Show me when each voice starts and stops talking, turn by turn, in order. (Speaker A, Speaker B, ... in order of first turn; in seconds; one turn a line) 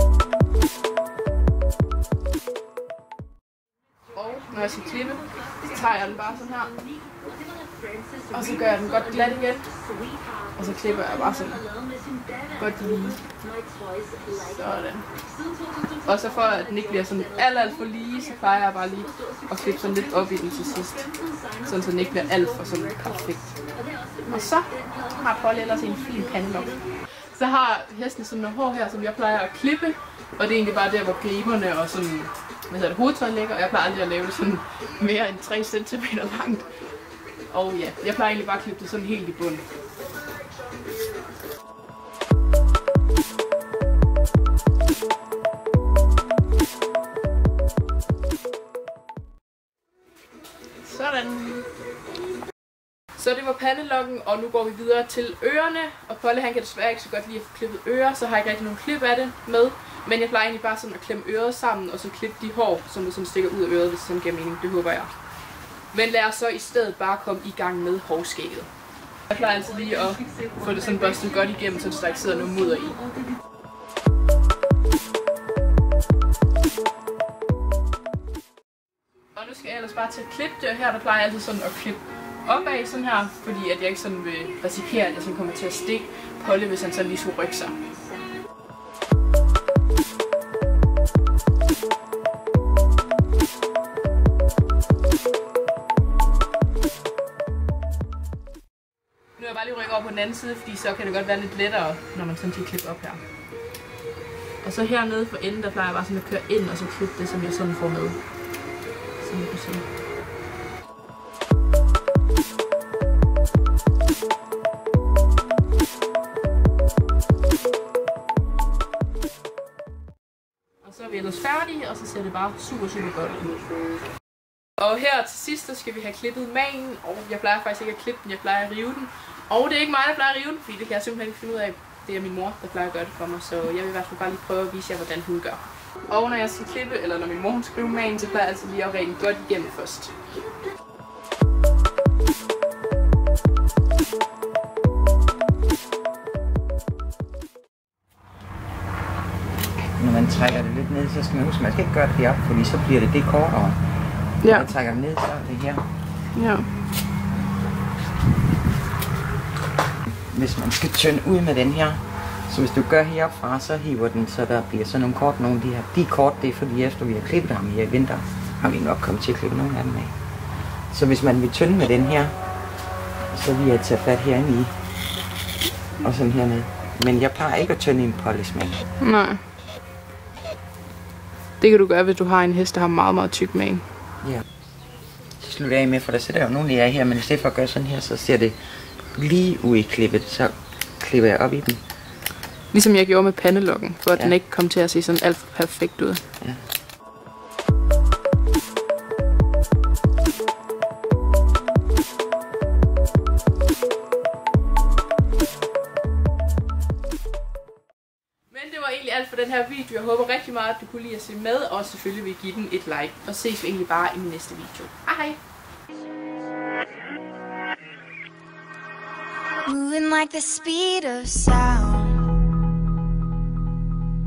Speaker A: 4.1-6.8
Speaker A: 8.3-9.7
Speaker A: 10.6-11.7
Speaker A: 12.5-13.2
Speaker A: 14.2-15.1
Speaker A: 16.0-23.6
Speaker A: 24.2-26.8
Speaker A: 27.3-36.7
Speaker A: 37.5-39.6
Speaker A: 50.8-51.6
Speaker A: 53.1-65.1
Speaker A: 65.9-68.7
Speaker A: 69.3-73.0
Speaker A: 79.3-87.7
Speaker A: 99.4-103.2
Speaker A: 104.6-108.2
Speaker A: 109.2-109.8
Speaker A: 120.8-123.6
Speaker A: 124.8-140.1
Speaker B: 150.0-153.8
Speaker A: 154.4-154.7
Speaker B: 154.4-155.8
Speaker A: 156.3-156.7
Speaker B: 160.3-170.1
Speaker B: 170.9-172.3
Speaker B: 173.3-174.7
Speaker B: 176.0-178.8
Speaker A: 179.0-179.4
Speaker A: 181.6-183.8
Speaker B: 185.4-188.5
Speaker B: 189.1-191.8
Speaker A: 192.7-196.2
Speaker A: 208.5-215.4
Speaker C: 219.7-222.4